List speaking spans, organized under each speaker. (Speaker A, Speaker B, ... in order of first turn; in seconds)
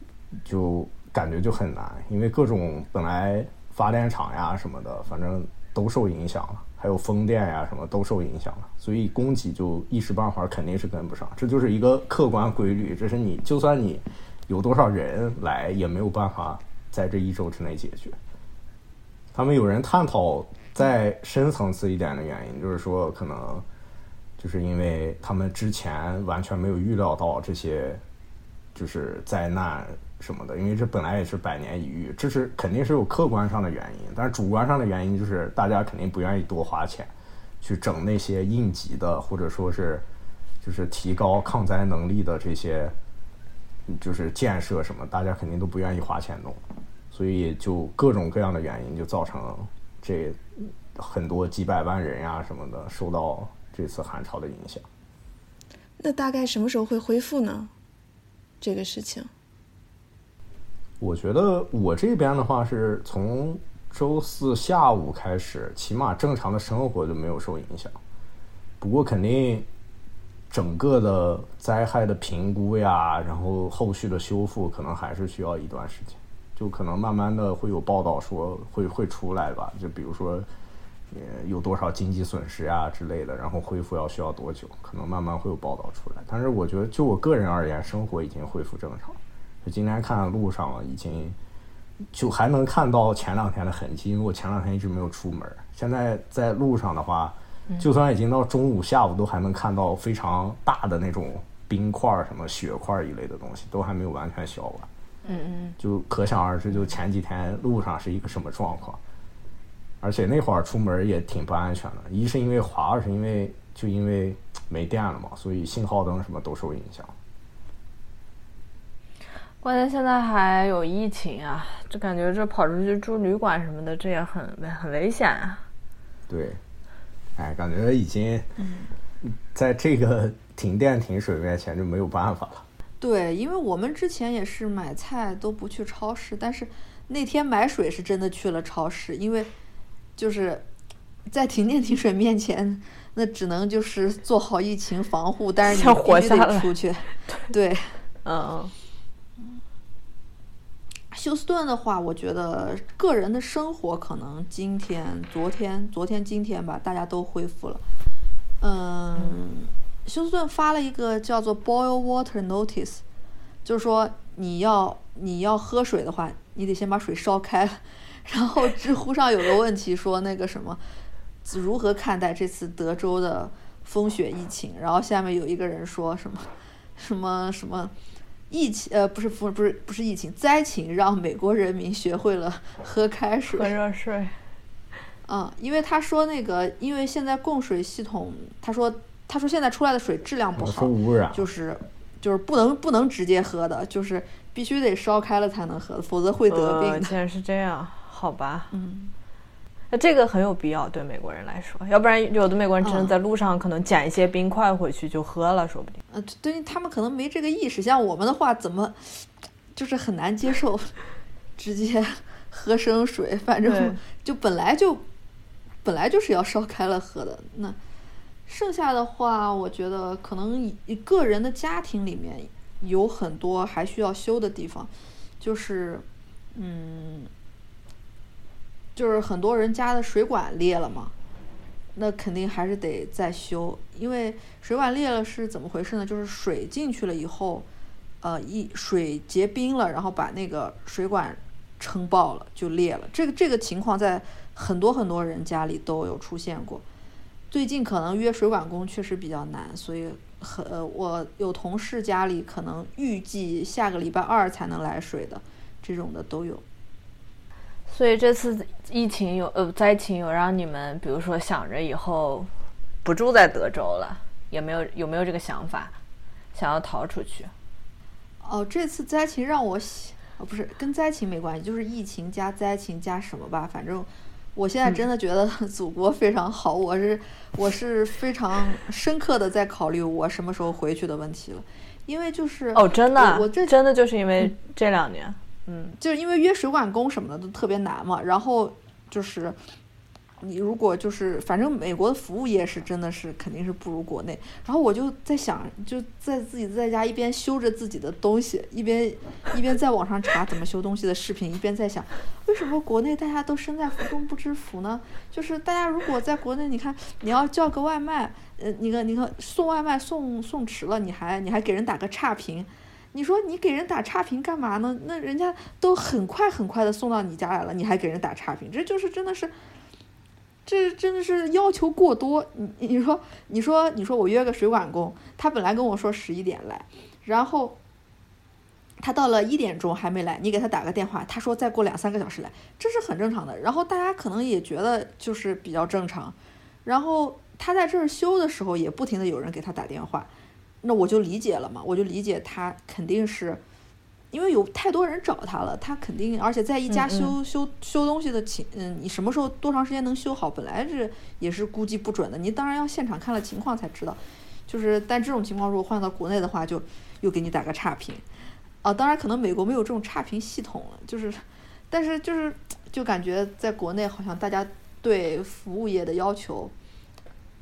Speaker A: 0.4-18.2, 19.3-23.6, 24.4-28.0, 28.8-40.1, 40.6-43.0, 43.9-46.6, 47.1-54.9, 61.0-68.0, 68.8-69.7, 70.5-80.5, 81.1-91.4, 92.1-104.9, 105.8-109.0, 110.0-117.1, 126.3-126.6, 127.4-128.5, 129.2-132.6, 190.6-191.5
Speaker B: 56.0-57.7, 58.6-59.3
Speaker C: 105.2-105.8, 119.6-125.6, 145.6-146.8, 148.2-148.7, 183.5-184.4, 196.5-198.7, 199.9-206.0, 213.6-214.0, 257.9-262.5, 263.0-266.0, 266.5-267.5, 282.7-286.0, 346.9-347.4
Speaker D: 128.6-128.9, 133.0-139.5, 140.2-140.7, 141.3-148.1, 151.1-157.8, 158.6-163.0, 163.7-170.8, 171.4-177.9, 178.5-183.7, 185.3-197.1, 198.7-199.1, 202.8-203.2, 206.1-210.9, 211.6-215.0, 215.8-217.8, 218.5-227.3, 229.0-231.1, 231.9-237.7, 238.2-246.8, 247.5-256.6, 268.4-283.7, 286.0-289.6, 290.4-319.5, 320.7-327.8, 329.0-340.3, 340.8-343.6, 344.3-358.2, 358.8-366.7